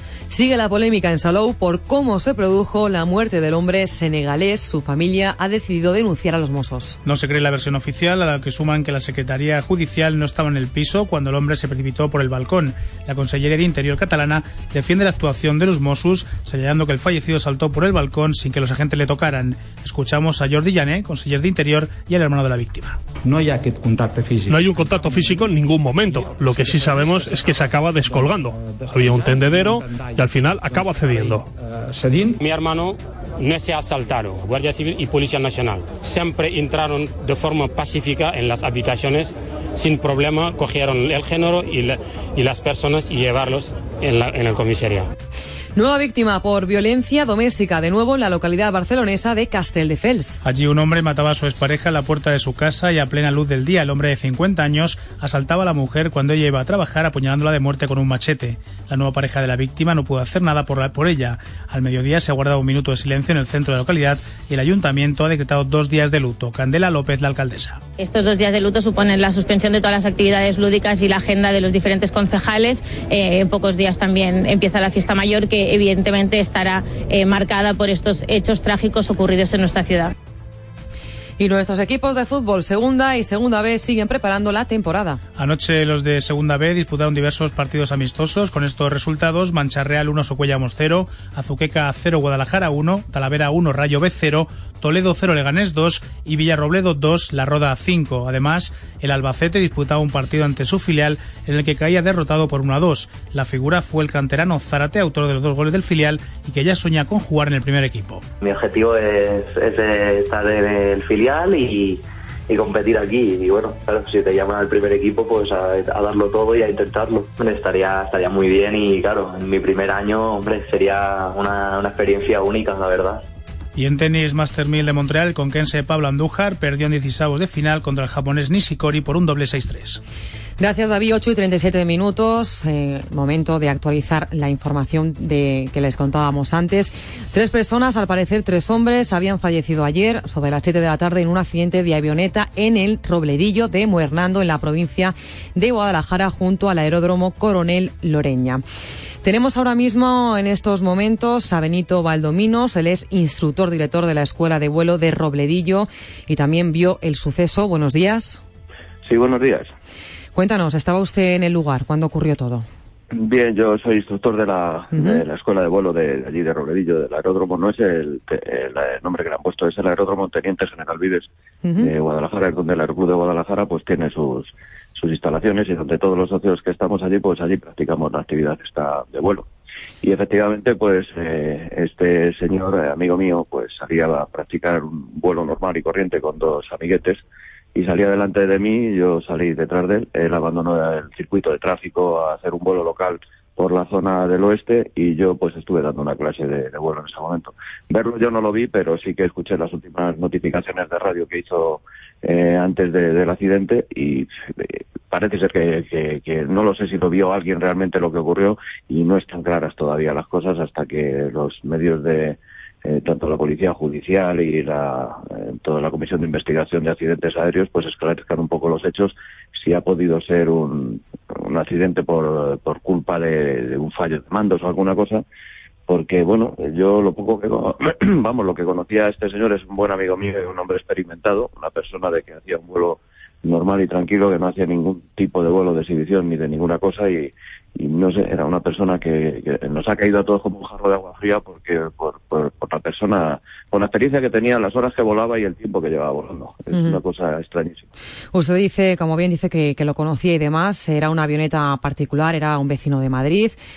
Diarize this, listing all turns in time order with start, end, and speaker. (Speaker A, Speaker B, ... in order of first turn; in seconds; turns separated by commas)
Speaker A: 0.3-7.0, Speaker B: 7.0-23.0, Speaker C: 23.2-24.9, Speaker D: 24.5-31.5, Speaker C: 31.9-32.4, Speaker E: 32.4-45.1, Speaker A: 45.8-50.4, Speaker B: 50.4-67.8, Speaker F: 68.0-80.1, Speaker A: 81.4-85.2, Speaker B: 85.4-108.2, Speaker G: 108.4-123.2, Speaker B: 123.8-130.0, Speaker A: 130.6-148.6, Speaker A: 149.2-158.4, Speaker H: 159.1-159.7, Speaker A: 160.3-162.7, Speaker H: 163.1-179.5, Speaker A: 164.9-165.2, Speaker A: 171.6-171.9, Speaker H: 180.0-187.2, Speaker H: 187.8-225.2, Speaker H: 225.9-247.9, Speaker A: 246.7-247.0, Speaker A: 248.3-253.6